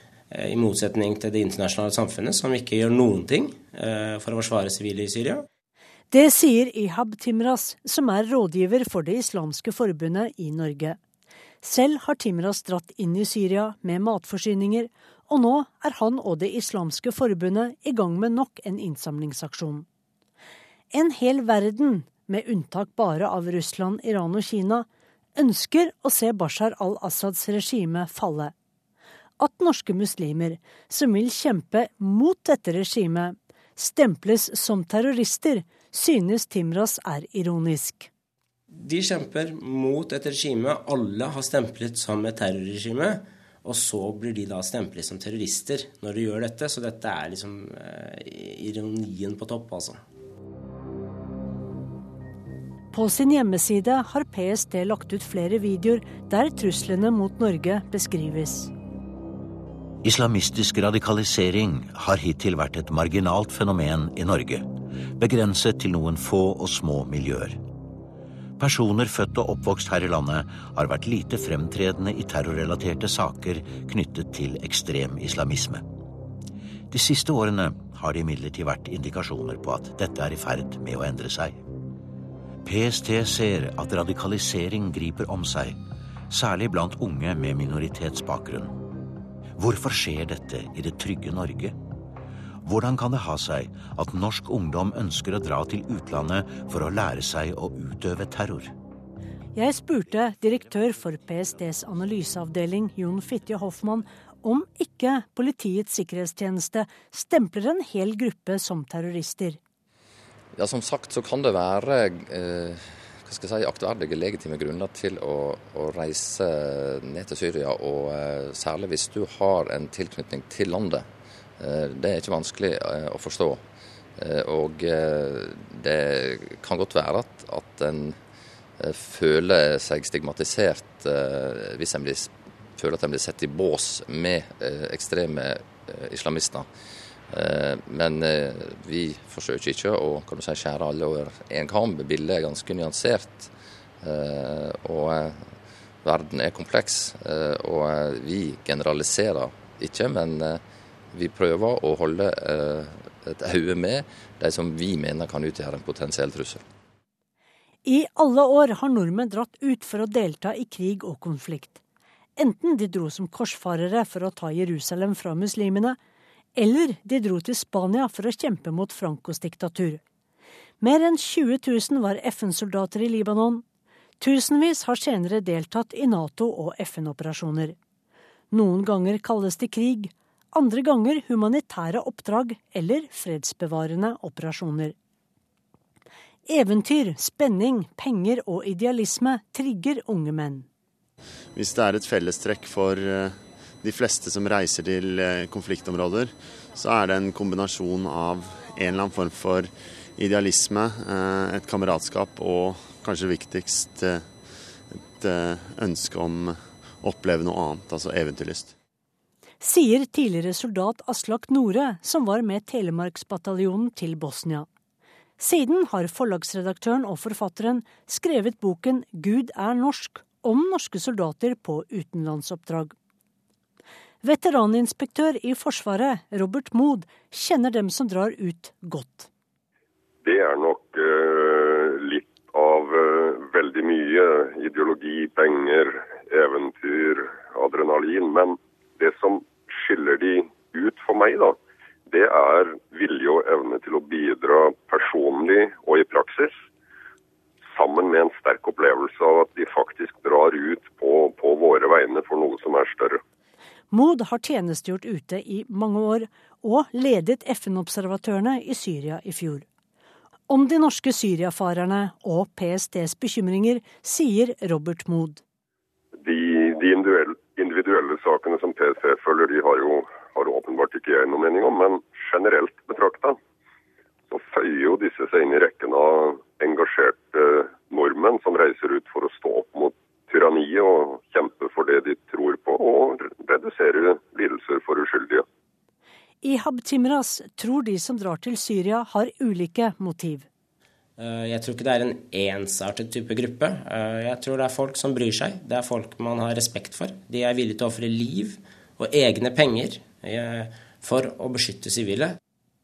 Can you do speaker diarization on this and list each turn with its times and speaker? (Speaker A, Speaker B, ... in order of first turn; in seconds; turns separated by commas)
Speaker A: 0.3-5.5, Speaker B: 6.1-11.0, Speaker B: 11.6-19.9, Speaker B: 20.9-28.5, Speaker B: 29.4-38.1, Speaker A: 38.7-50.0, Speaker B: 52.9-58.7, Speaker C: 60.0-67.6, Speaker C: 68.6-75.8, Speaker C: 76.9-81.6, Speaker C: 82.6-85.8, Speaker C: 86.3-88.7, Speaker C: 89.6-91.7, Speaker C: 92.6-98.7, Speaker B: 99.5-109.6, Speaker D: 110.5-121.1, Speaker D: 121.6-123.6, Speaker D: 124.2-128.2, Speaker D: 128.8-136.7, Speaker D: 137.3-145.5, Speaker D: 146.0-156.6, Speaker B: 157.8-161.8, Speaker B: 162.4-166.0, Speaker B: 166.6-170.0, Speaker B: 170.8-173.6, Speaker B: 174.2-177.8, Speaker B: 178.5-184.9, Speaker B: 186.5-190.7, Speaker E: 191.5-204.3, Speaker E: 204.9-208.7, Speaker B: 209.6-214.7, Speaker B: 215.4-222.9, Speaker B: 224.2-229.3, Speaker F: 230.2-241.6, Speaker F: 242.1-246.6, Speaker F: 247.7-253.2, Speaker B: 253.9-259.6, Speaker B: 260.5-265.4, Speaker F: 266.2-273.4, Speaker F: 274.3-285.4, Speaker B: 286.4-290.4, Speaker A: 291.2-302.4